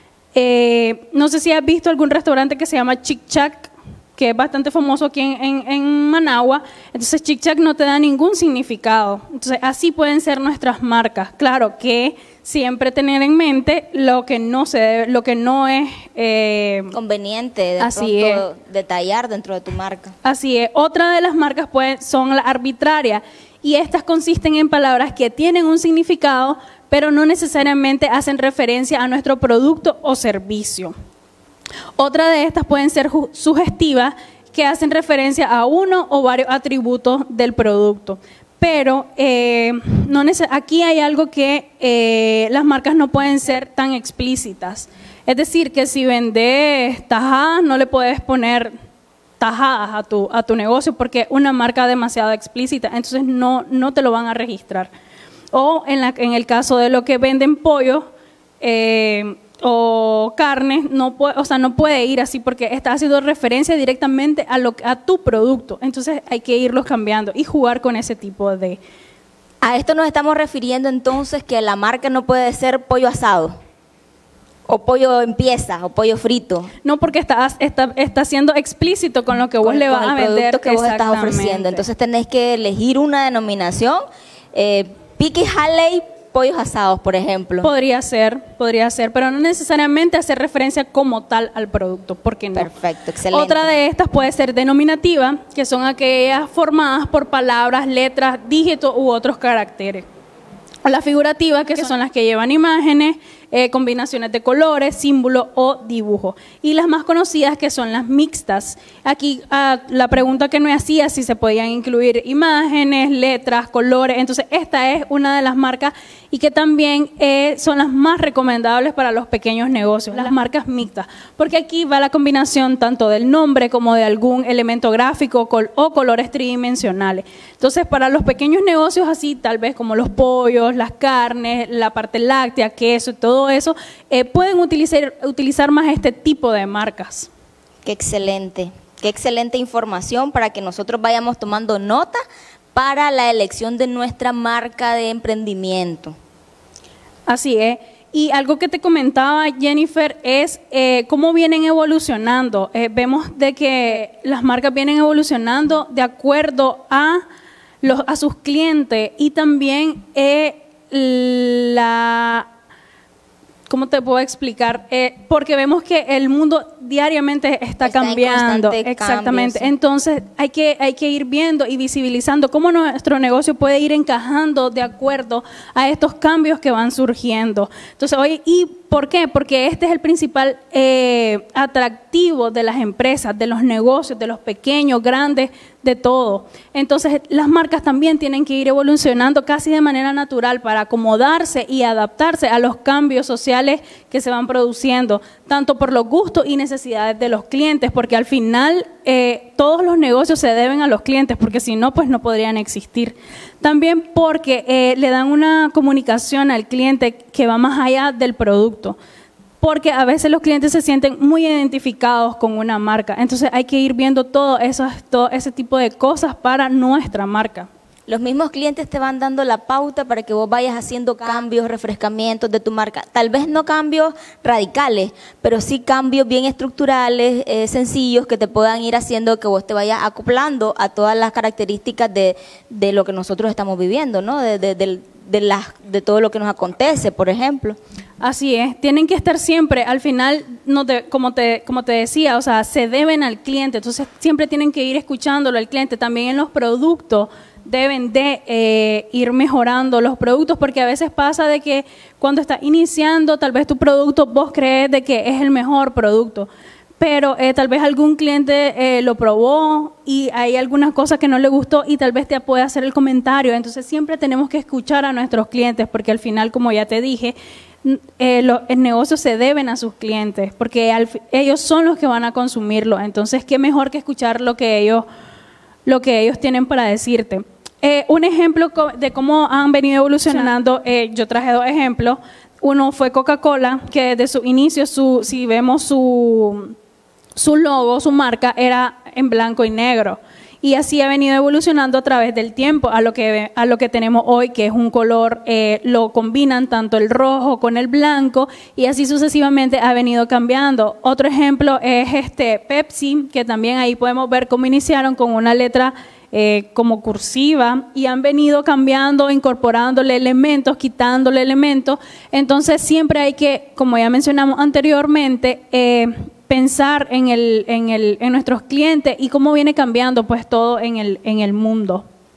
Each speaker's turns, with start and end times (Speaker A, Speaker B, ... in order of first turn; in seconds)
Speaker A: 0.3-16.9, 17.8-18.4, 20.2-30.9, 32.0-48.7, 49.4-54.9, 55.5-58.0, 58.6-68.8, 76.8-81.8, 87.6-92.7, 93.3-100.0, 100.8-137.3, 147.3-157.2, 157.8-162.5, 163.7-208.9, 209.6-217.7, 238.2-256.5, 257.0-275.1, 275.9-286.7, 287.4-322.0
Speaker B: 16.9-20.1, 69.6-73.5, 74.7-76.7, 79.6-87.7, 92.5-93.7, 137.8-142.2, 142.7-146.1, 167.8-169.7, 218.1-237.8